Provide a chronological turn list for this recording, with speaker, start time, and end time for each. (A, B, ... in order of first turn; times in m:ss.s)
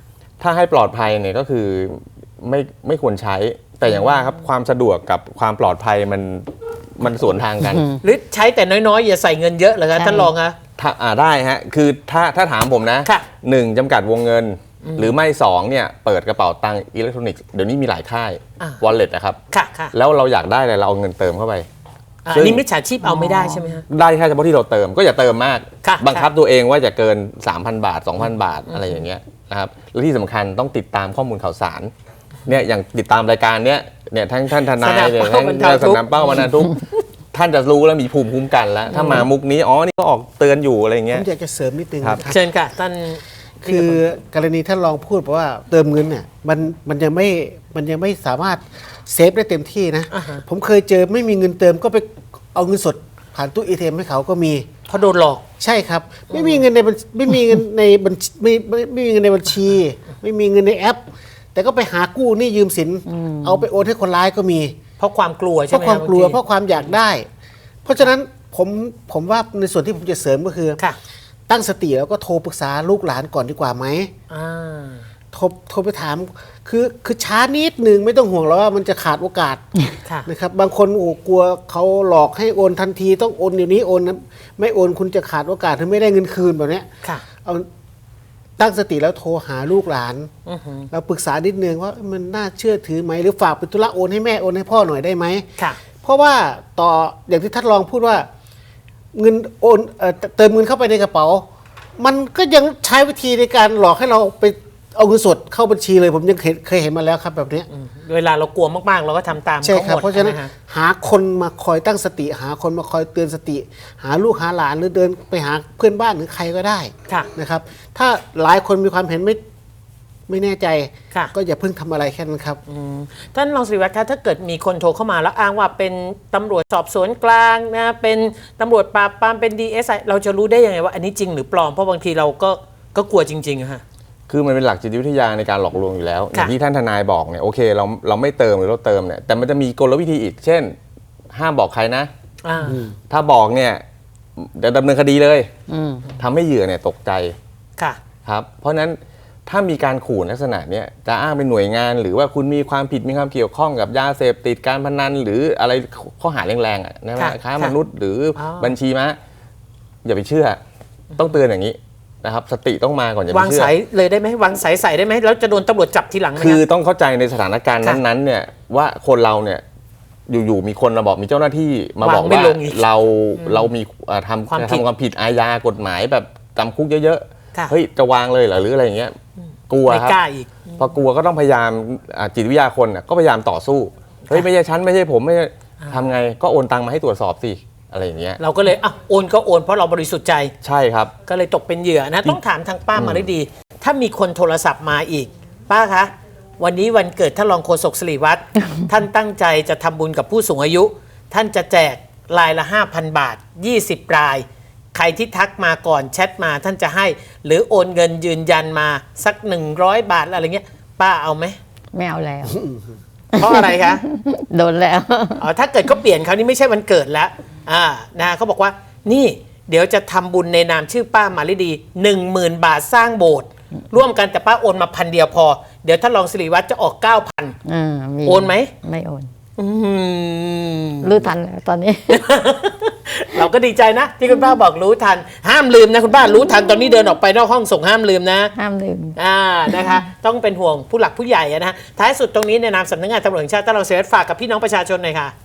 0:00.4-0:07.9 A
0:03.8-0:04.3 B
0:07.6-0:08.0 C
0:08.0-0:10.6 B
0:10.0-0:10.3 C
0:10.8-0:19.4 A
0:14.8-0:15.1 B
0:19.5-0:19.9 B
0:19.9-0:21.7 A
0:22.2-0:23.8 B
0:22.3-0:31.9 A
0:25.8-0:26.3 B
0:28.6-0:29.0 B
0:32.4-0:41.2 A
0:34.7-0:36.5 B
0:38.9-0:39.3 B
0:41.1-0:42.4 D
0:42.3-0:44.0 B
0:43.6-0:54.7 D
0:50.1-0:50.4 B
0:54.9-0:55.4 B
0:55.6-1:01.0 D
0:56.3-0:56.6 B
1:01.5-1:04.7 D
1:03.1-1:03.7 C
1:05.0-1:06.4 B
1:05.7-1:07.3 D
1:07.8-1:10.8 D
1:11.5-1:14.1 D
1:14.3-1:15.1 B
1:15.3-1:19.7 D
1:20.2-1:26.9 D
1:28.6-1:30.3 D
1:30.4-1:30.9 B
1:30.9-1:35.5 D
1:36.0-1:38.3 D
1:39.1-1:41.4 D
1:42.0-1:47.7 D
1:47.7-1:50.5 B
1:49.6-1:59.4 D
2:00.3-2:02.6 D
2:02.7-2:13.8 B
2:14.3-2:20.8 A
2:21.3-2:22.1 A
2:22.4-2:22.8 B
2:22.6-2:22.9 D
2:23.0-2:23.8 A
2:24.4-2:25.5 A
2:25.7-2:26.1 C
2:26.2-2:27.4 A
2:28.2-2:39.2 A
2:37.2-2:37.8 B
2:38.4-2:38.8 B
2:40.0-2:40.6 A
2:41.2-2:43.7 A
2:43.3-2:46.6 B
2:46.4-2:49.6 A
2:50.3-2:59.2 A
2:52.0-2:52.8 B
2:53.4-2:53.7 B
2:54.5-2:54.8 B
2:59.7-3:00.2 A
2:59.8-3:00.8 B
3:00.8-3:08.4 A
3:08.4-3:10.5 B
3:10.6-3:11.1 A
3:11.2-3:31.6 B
3:12.9-3:13.3 A
3:31.9-3:32.6 C
3:32.5-3:32.8 D
3:33.3-3:35.5 C
3:33.3-3:34.0 B
3:35.4-3:47.6 B
3:47.6-3:49.3 C
3:48.2-3:48.7 B
3:49.6-3:51.3 B
3:51.0-3:52.2 C
3:52.1-3:58.5 B
3:58.6-4:00.0 C
3:59.2-4:05.3 B